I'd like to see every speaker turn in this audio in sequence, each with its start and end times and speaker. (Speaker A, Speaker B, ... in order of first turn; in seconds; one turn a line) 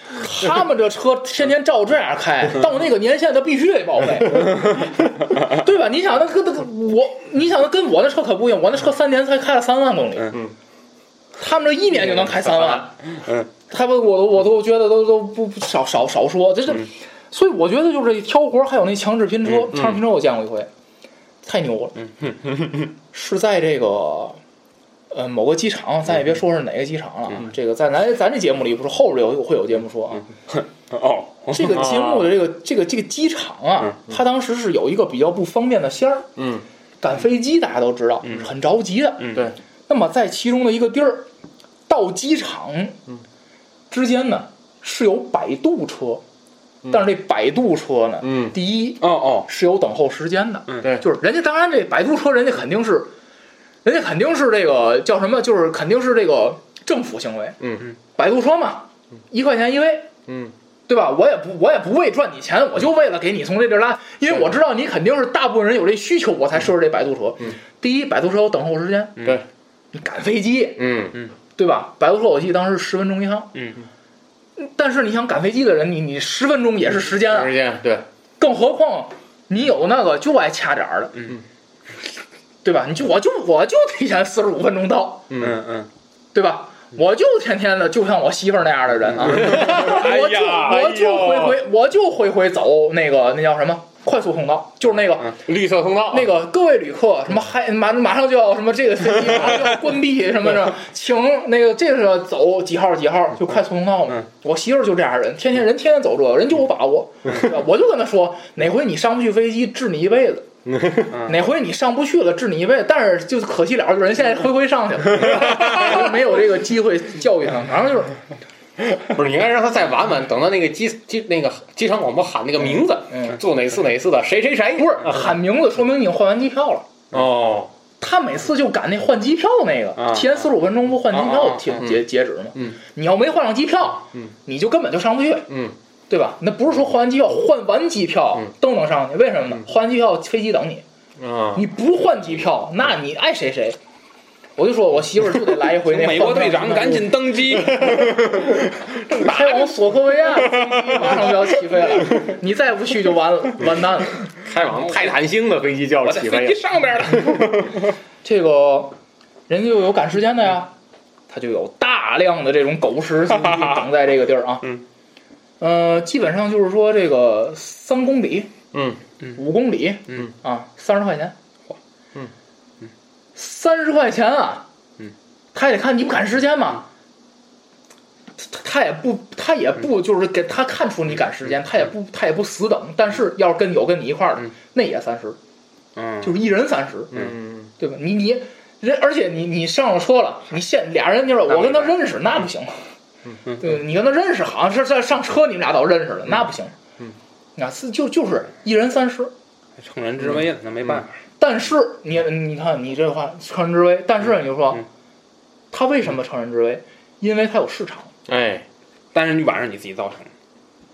Speaker A: 0.1-10.4
Speaker A: 11.4-12.9
Speaker B: 11.9-12.9
Speaker A: 13.7-20.7
Speaker B: 19.7-20.0
Speaker A: 21.4-21.9
Speaker A: 23.1-24.4
Speaker A: 25.1-30.2
Speaker C: 30.5-31.9
Speaker A: 31.5-36.3
Speaker B: 31.7-32.3
Speaker B: 36.4-36.6
Speaker A: 37.0-39.4
Speaker C: 39.2-39.5
Speaker A: 39.9-41.3
Speaker A: 41.9-43.0
Speaker A: 43.9-46.2
Speaker A: 46.9-53.1
Speaker B: 48.2-48.6
Speaker C: 49.0-49.5
Speaker B: 50.8-51.0
Speaker A: 53.8-57.6
Speaker B: 57.6-57.9
Speaker A: 58.1-60.1
Speaker B: 60.3-60.5
Speaker A: 60.9-69.2
Speaker A: 69.9-70.9
Speaker B: 70.8-71.2
Speaker A: 71.6-73.5
Speaker A: 74.6-77.6
Speaker B: 77.0-78.0
Speaker A: 78.4-81.1
Speaker A: 82.6-85.3
Speaker B: 85.3-85.6
Speaker C: 85.4-85.9
Speaker A: 86.3-95.4
Speaker C: 89.2-90.8
Speaker B: 89.2-91.6
Speaker B: 95.3-96.3
Speaker A: 96.1-110.5
Speaker B: 110.7-111.1
Speaker C: 111.1-111.4
Speaker A: 111.2-118.1
Speaker B: 118.9-125.3
Speaker A: 123.1-123.4
Speaker A: 124.8-126.9
Speaker B: 127.1-127.7
Speaker A: 128.0-135.5
Speaker C: 130.0-130.4
Speaker C: 131.1-131.9
Speaker B: 135.5-135.8
Speaker A: 136.1-140.8
Speaker B: 141.2-141.7
Speaker A: 141.5-143.8
Speaker A: 144.6-147.2
Speaker C: 145.8-149.7
Speaker B: 147.8-148.3
Speaker A: 149.1-154.3
Speaker C: 150.9-151.2
Speaker B: 154.4-157.4
Speaker C: 156.0-157.8
Speaker A: 158.2-159.0
Speaker A: 159.5-160.7
Speaker A: 161.3-164.7
Speaker C: 163.3-163.8
Speaker A: 165.6-168.5
Speaker B: 168.7-169.0
Speaker A: 169.3-171.3
Speaker A: 173.4-174.7
Speaker A: 175.5-176.8
Speaker A: 178.4-185.4
Speaker C: 186.0-186.3
Speaker A: 186.2-187.2
Speaker B: 187.1-187.7
Speaker A: 187.8-192.9
Speaker C: 191.5-191.9
Speaker A: 193.6-196.7
Speaker A: 197.6-199.3
Speaker C: 199.8-201.2
Speaker A: 201.4-204.8
Speaker A: 205.7-208.1
Speaker B: 208.3-208.7
Speaker C: 209.1-210.3